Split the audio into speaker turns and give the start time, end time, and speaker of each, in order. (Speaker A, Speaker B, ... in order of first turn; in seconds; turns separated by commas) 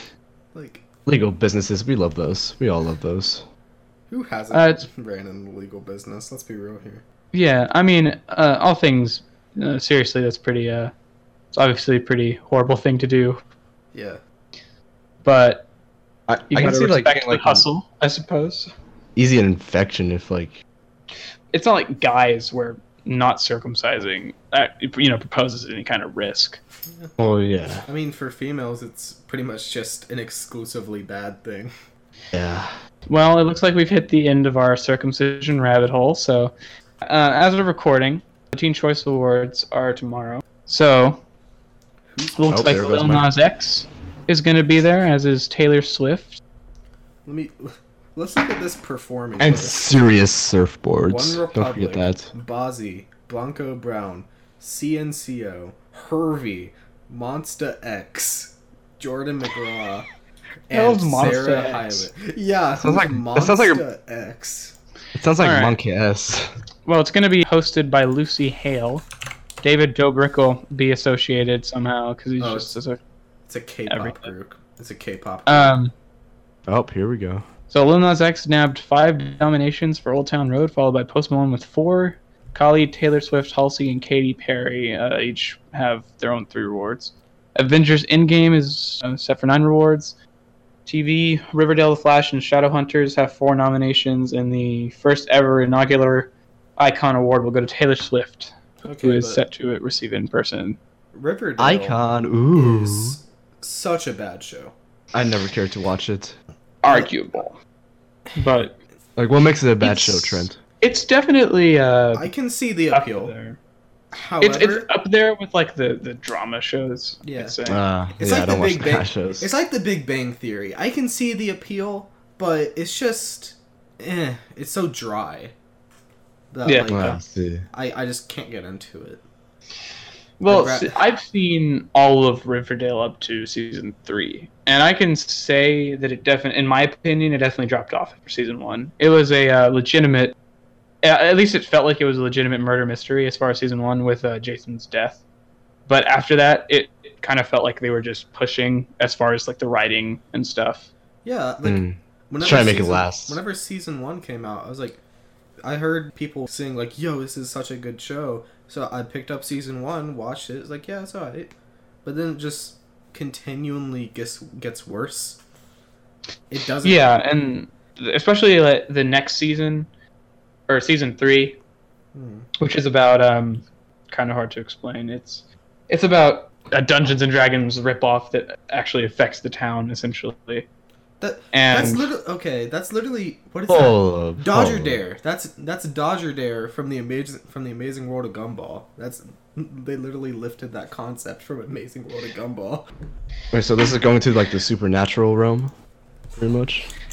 Speaker A: 0.5-0.8, Speaker B: 1.1-3.5, Speaker A: 4.1-7.0, Speaker C: 4.5-4.8, Speaker C: 7.3-10.9, Speaker C: 11.5-13.4, Speaker A: 13.9-14.2, Speaker C: 15.2-15.7, Speaker B: 16.3-17.6, Speaker C: 16.5-18.7, Speaker B: 19.1-20.6, Speaker C: 21.5-26.6, Speaker B: 27.2-27.9, Speaker A: 27.9-31.7, Speaker B: 32.3-32.7, Speaker C: 33.1-41.2, Speaker A: 42.1-43.1, Speaker C: 42.3-46.4, Speaker B: 42.5-43.3, Speaker A: 47.2-49.7, Speaker B: 49.4-52.3, Speaker A: 51.1-60.1, Speaker A: 60.7-64.8, Speaker C: 60.7-62.1, Speaker B: 62.8-63.8, Speaker B: 65.2-66.5, Speaker C: 65.4-65.8, Speaker C: 66.8-69.0, Speaker C: 69.6-73.0, Speaker A: 72.4-72.7, Speaker A: 73.5-75.7, Speaker C: 73.9-74.3, Speaker C: 75.5-75.9, Speaker B: 76.7-77.5, Speaker C: 77.7-90.1, Speaker C: 90.8-100.8, Speaker A: 98.8-99.4, Speaker A: 101.1-102.0, Speaker B: 101.6-103.2, Speaker A: 102.5-104.7, Speaker B: 105.1-106.3, Speaker C: 106.8-107.6, Speaker C: 108.3-108.8, Speaker B: 109.2-110.6, Speaker C: 109.8-112.3, Speaker A: 112.1-113.3, Speaker C: 112.9-113.6, Speaker A: 114.1-114.9, Speaker C: 114.4-117.8, Speaker A: 117.2-117.6, Speaker B: 117.7-119.5, Speaker A: 118.2-125.5, Speaker A: 126.5-129.2, Speaker C: 126.6-127.2, Speaker B: 126.9-127.7, Speaker C: 130.4-140.3, Speaker A: 130.4-131.0, Speaker C: 141.0-145.2, Speaker C: 145.9-150.9, Speaker A: 151.2-155.0, Speaker B: 151.6-153.4, Speaker A: 155.6-161.5, Speaker A: 162.0-165.4, Speaker A: 166.5-167.1, Speaker C: 166.8-169.9, Speaker C: 170.7-171.6, Speaker A: 172.1-172.5, Speaker C: 172.6-180.7, Speaker A: 181.2-192.9, Speaker C: 181.5-182.1, Speaker B: 183.7-185.0, Speaker B: 193.5-195.7, Speaker B: 196.4-196.9